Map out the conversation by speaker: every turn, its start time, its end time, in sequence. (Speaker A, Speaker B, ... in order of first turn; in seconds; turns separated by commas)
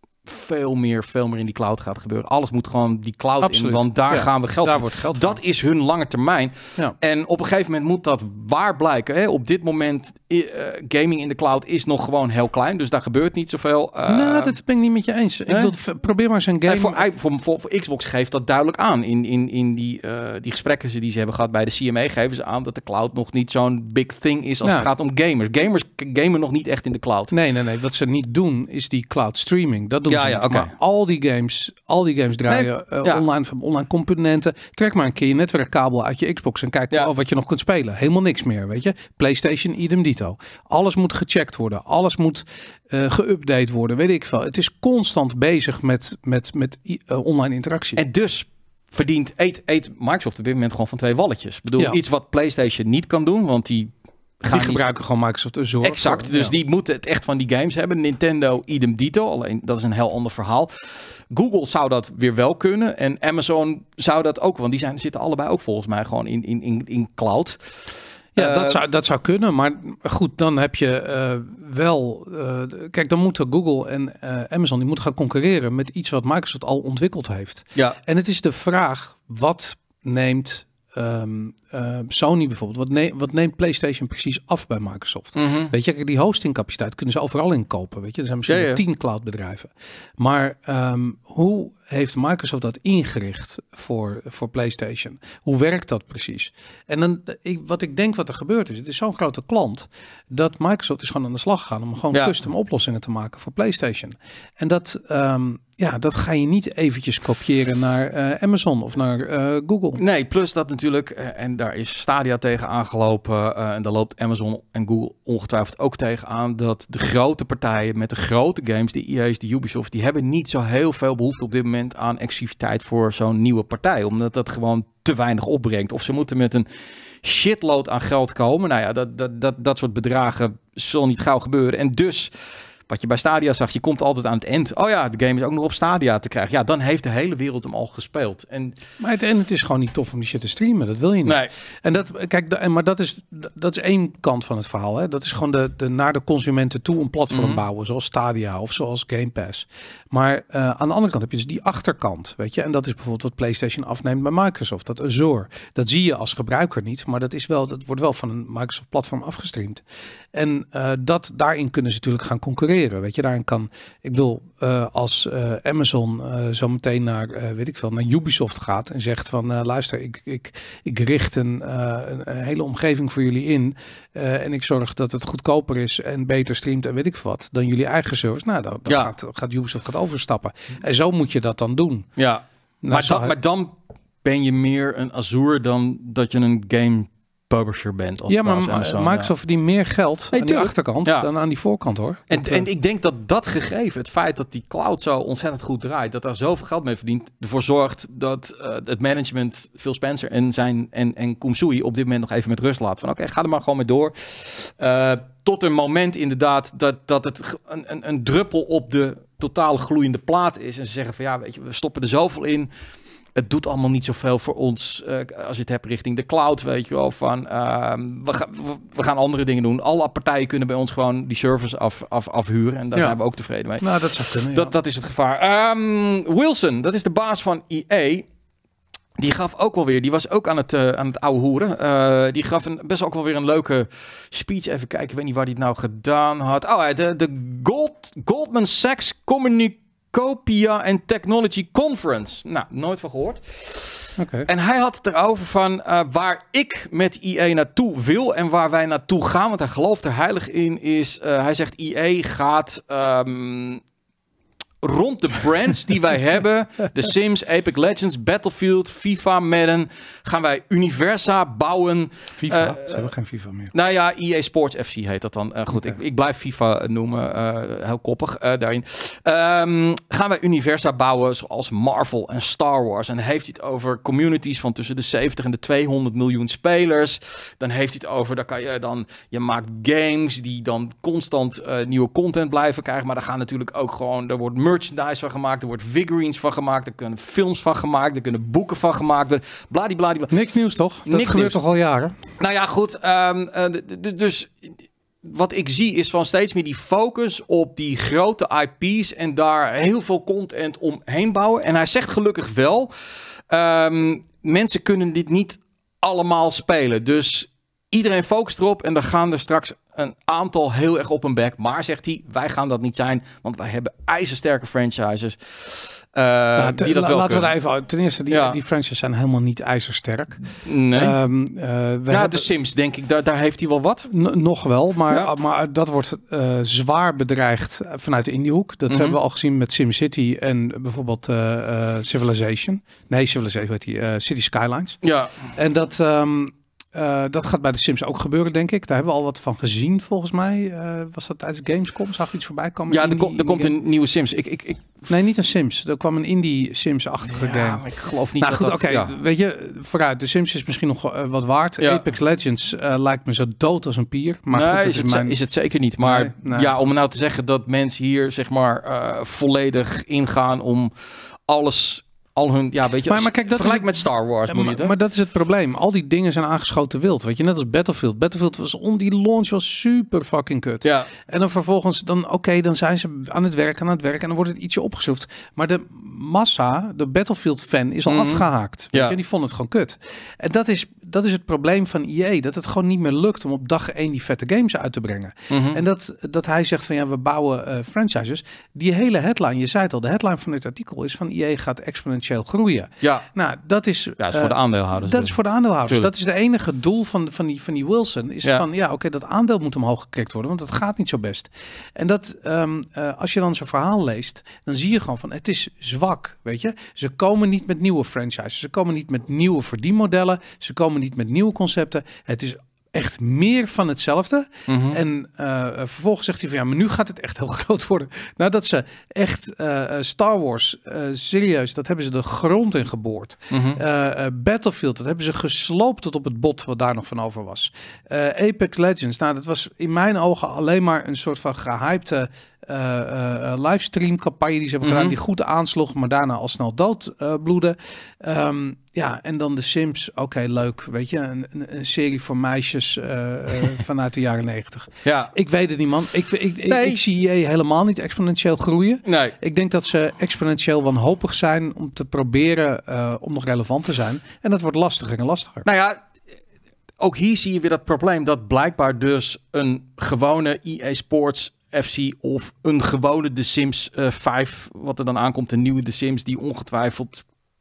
Speaker A: 0.2-14.5, Speaker B: 3.4-5.4, Speaker B: 14.1-17.0, Speaker A: 15.5-15.7, Speaker A: 16.7-27.3, Speaker B: 24.6-24.9, Speaker B: 27.3-48.0, Speaker A: 30.1-30.7, Speaker A: 32.5-33.2, Speaker A: 48.0-54.8, Speaker B: 54.5-56.5, Speaker A: 55.8-60.7, Speaker A: 61.3-67.6, Speaker B: 68.3-110.0, Speaker A: 68.4-68.8, Speaker A: 85.3-85.7, Speaker A: 88.5-88.8, Speaker A: 109.9-126.7, Speaker A: 127.2-132.3, Speaker A: 132.9-138.8, Speaker B: 139.0-159.8, Speaker A: 141.2-141.5, Speaker A: 147.3-147.6, Speaker B: 160.3-182.1, Speaker A: 178.9-179.1, Speaker A: 182.2-189.3, Speaker B: 182.8-183.3, Speaker B: 188.3-192.7, Speaker A: 190.3-191.3, Speaker A: 192.3-212.7, Speaker A: 213.3-228.2, Speaker B: 223.8-224.7, Speaker A: 229.2-253.8, Speaker B: 244.2-244.5, Speaker A: 254.8-263.1, Speaker B: 262.4-263.7, Speaker A: 263.7-290.3, Speaker B: 290.3-292.1, Speaker A: 291.1-291.6, Speaker A: 292.4-294.7, Speaker A: 295.2-302.9, Speaker A: 303.5-317.5, Speaker B: 316.6-320.4, Speaker A: 318.3-318.6, Speaker A: 320.4-321.1, Speaker B: 320.9-322.5, Speaker A: 322.1-324.1, Speaker B: 324.1-335.0, Speaker A: 328.9-329.2, Speaker A: 335.0-335.4, Speaker B: 335.5-343.7, Speaker A: 342.9-344.9, Speaker B: 345.1-347.9, Speaker A: 347.3-349.1, Speaker B: 348.4-355.4, Speaker A: 354.5-360.9, Speaker B: 356.0-356.7, Speaker A: 361.5-364.9, Speaker B: 363.1-363.9, Speaker B: 364.5-455.6, Speaker A: 370.8-371.1, Speaker A: 378.1-379.1, Speaker A: 385.5-385.8, Speaker A: 394.2-395.3, Speaker A: 414.7-415.0, Speaker A: 423.5-423.8, Speaker A: 434.8-435.2, Speaker A: 445.0-445.3, Speaker A: 446.6-447.0, Speaker A: 449.1-449.3, Speaker A: 455.6-456.0, Speaker A: 457.0-467.2